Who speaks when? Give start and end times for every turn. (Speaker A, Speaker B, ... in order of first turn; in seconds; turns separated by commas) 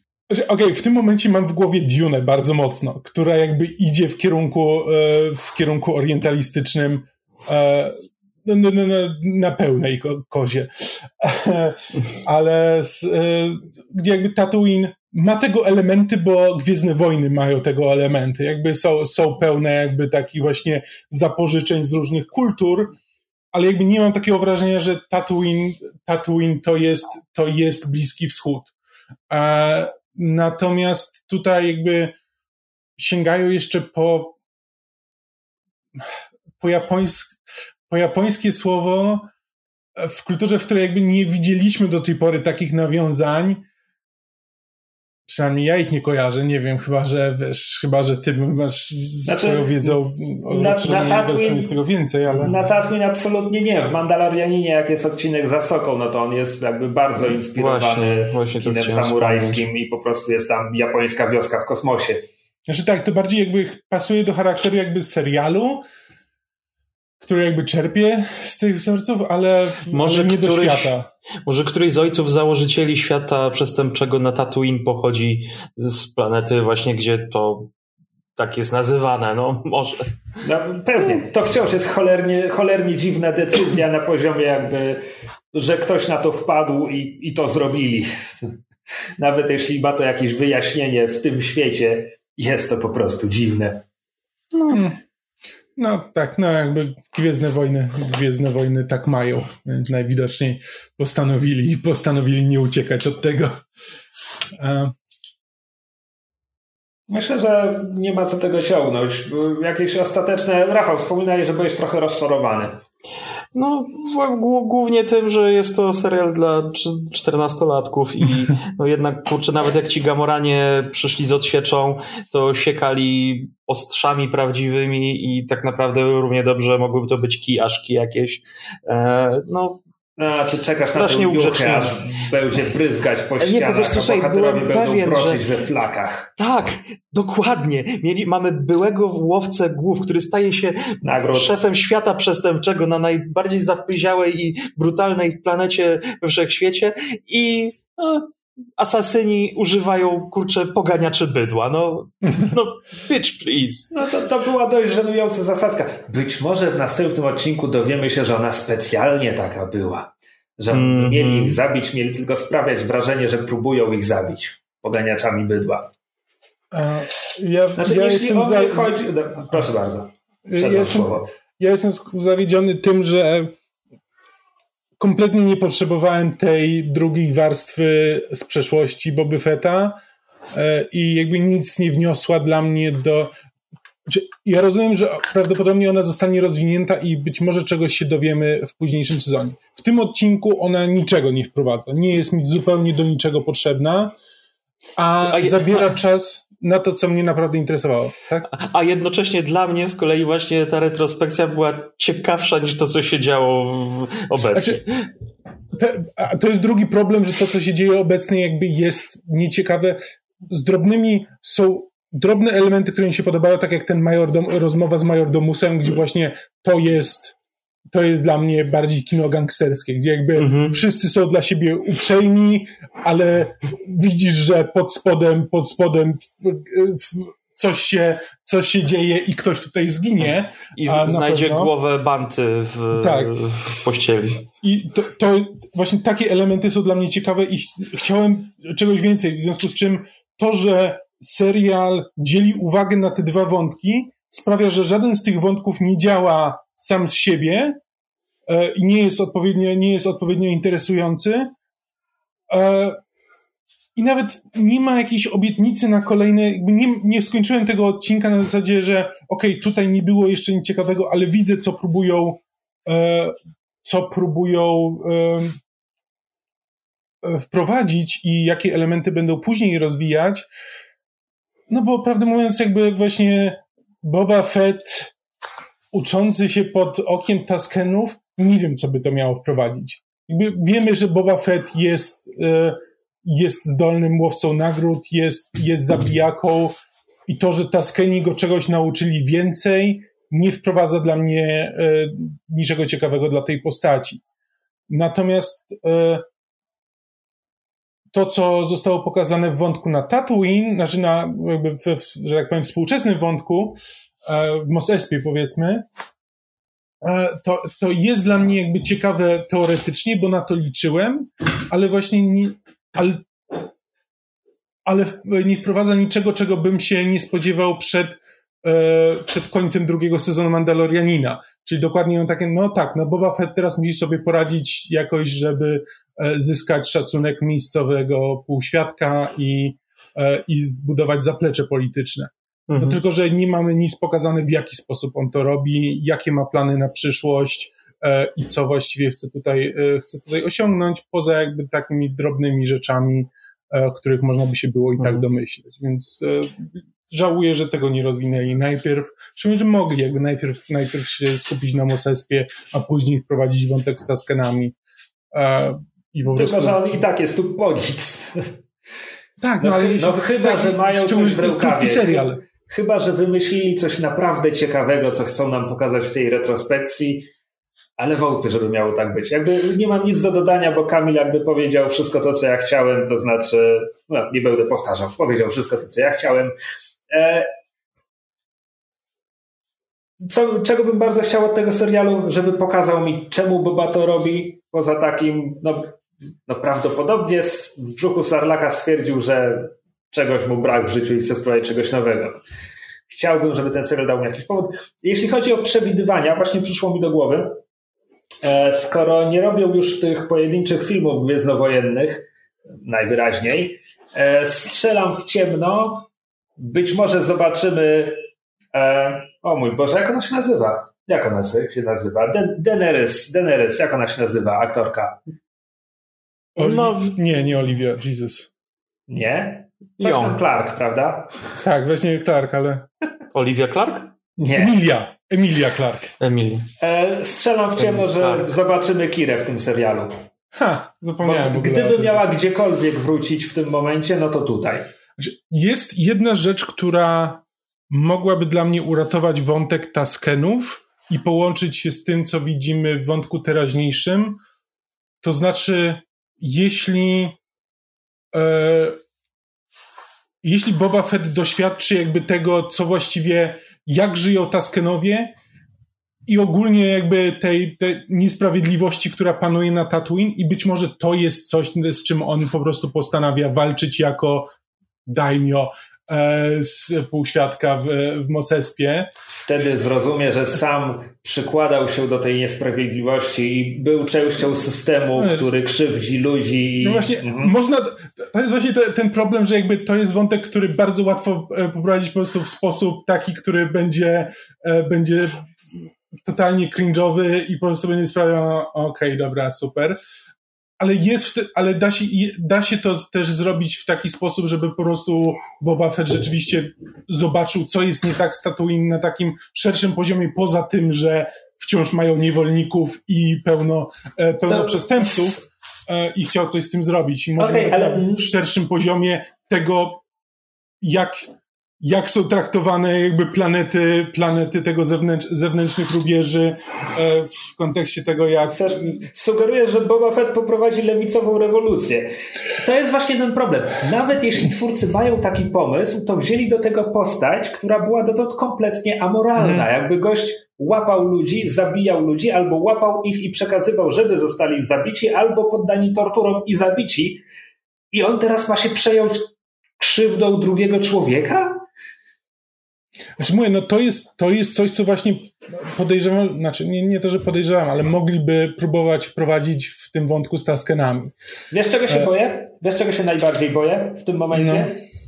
Speaker A: 0.3-22.9, Speaker A: 23.5-28.7, Speaker A: 29.3-32.1, Speaker A: 33.0-34.4, Speaker A: 36.6-37.4, Speaker A: 37.9-39.3, Speaker A: 40.0-43.6, Speaker A: 45.3-52.5, Speaker B: 49.2-50.0, Speaker B: 50.5-51.7, Speaker B: 52.4-62.2, Speaker C: 57.5-59.6, Speaker A: 62.7-65.8, Speaker A: 67.2-71.1, Speaker C: 69.9-70.9, Speaker C: 71.4-77.7, Speaker C: 78.3-80.1, Speaker B: 80.4-85.0, Speaker B: 85.5-88.6, Speaker B: 89.2-93.8, Speaker C: 94.5-94.8, Speaker A: 94.7-95.0, Speaker A: 95.8-103.6, Speaker A: 104.5-104.9, Speaker B: 107.1-112.8, Speaker C: 113.5-129.8, Speaker B: 130.2-136.3, Speaker C: 130.8-132.0, Speaker C: 133.4-135.4, Speaker C: 136.4-153.9, Speaker B: 141.0-141.5, Speaker B: 153.9-165.9, Speaker C: 160.7-161.6, Speaker A: 166.7-169.0, Speaker B: 167.8-171.3, Speaker A: 170.4-173.5, Speaker A: 175.0-180.0, Speaker A: 180.5-183.3, Speaker A: 184.1-194.2, Speaker A: 194.9-198.5, Speaker C: 195.3-195.8, Speaker C: 198.5-205.1, Speaker A: 204.5-204.8, Speaker A: 205.7-217.3, Speaker A: 217.9-231.7, Speaker C: 220.3-220.8, Speaker C: 230.7-234.4, Speaker A: 232.9-233.3, Speaker A: 234.6-247.8, Speaker A: 248.5-251.5, Speaker A: 252.5-253.0, Speaker A: 253.9-265.6, Speaker A: 267.2-270.5, Speaker A: 271.7-275.1, Speaker A: 275.9-294.2, Speaker A: 294.9-296.2, Speaker A: 298.1-305.9, Speaker A: 307.0-313.6, Speaker A: 314.8-354.7, Speaker C: 332.7-333.0, Speaker A: 355.3-356.8, Speaker B: 356.3-358.5, Speaker A: 359.4-362.4, Speaker B: 359.6-367.3, Speaker B: 368.0-376.5, Speaker B: 377.1-377.5, Speaker B: 380.2-392.4, Speaker B: 393.1-397.6, Speaker B: 398.4-402.2, Speaker B: 402.8-408.2, Speaker B: 408.7-415.2, Speaker A: 416.6-418.5, Speaker C: 416.6-417.1, Speaker B: 419.1-421.3, Speaker C: 420.0-420.4, Speaker A: 421.6-422.9, Speaker C: 423.3-424.1, Speaker B: 424.4-424.8, Speaker A: 424.5-426.1, Speaker C: 426.2-426.7, Speaker B: 426.8-430.2, Speaker C: 427.8-428.5, Speaker A: 430.5-432.2, Speaker B: 431.2-434.9, Speaker A: 435.2-444.4, Speaker A: 445.2-447.4, Speaker A: 448.3-449.0, Speaker A: 450.4-455.4, Speaker A: 456.2-464.5, Speaker A: 465.1-469.1, Speaker B: 469.4-477.5, Speaker A: 475.1-475.5, Speaker A: 476.8-485.5, Speaker A: 486.2-490.0, Speaker A: 490.8-510.0, Speaker B: 504.5-505.4, Speaker B: 507.4-508.2, Speaker A: 510.8-518.8, Speaker B: 518.5-537.2, Speaker A: 529.4-529.7, Speaker B: 537.9-539.2, Speaker B: 539.8-541.6, Speaker A: 543.2-551.1, Speaker B: 551.5-554.8, Speaker A: 554.3-554.7